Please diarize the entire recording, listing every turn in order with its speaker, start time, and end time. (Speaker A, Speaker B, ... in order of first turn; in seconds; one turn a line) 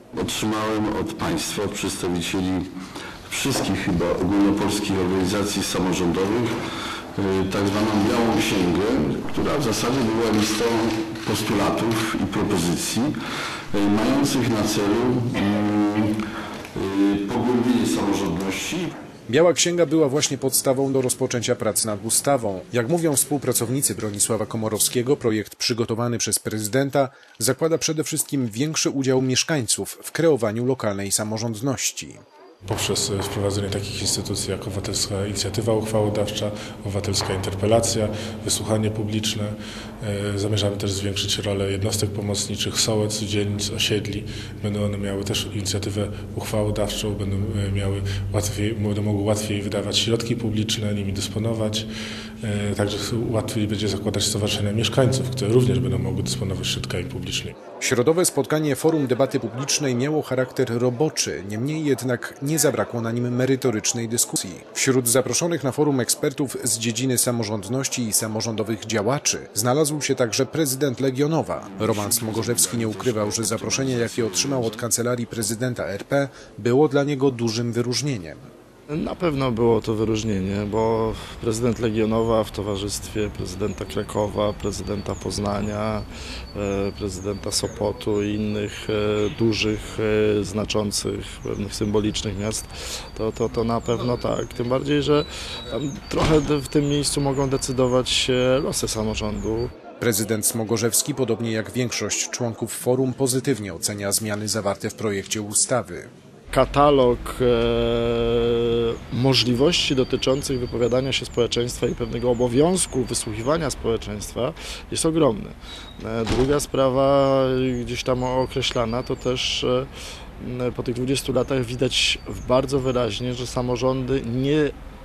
Speaker A: 0.1-2.7
Speaker A: 3.3-6.5
Speaker A: 7.2-13.1
Speaker A: 13.7-16.1
Speaker A: 16.7-18.9
Speaker B: 19.3-32.2
Speaker C: 32.6-51.9
Speaker C: 52.4-57.5
Speaker B: 57.8-78.5
Speaker A: 71.7-74.8
Speaker D: 78.9-99.7
Speaker B: 100.0-106.1
Speaker D: 106.5-119.9
Speaker D: 120.4-124.7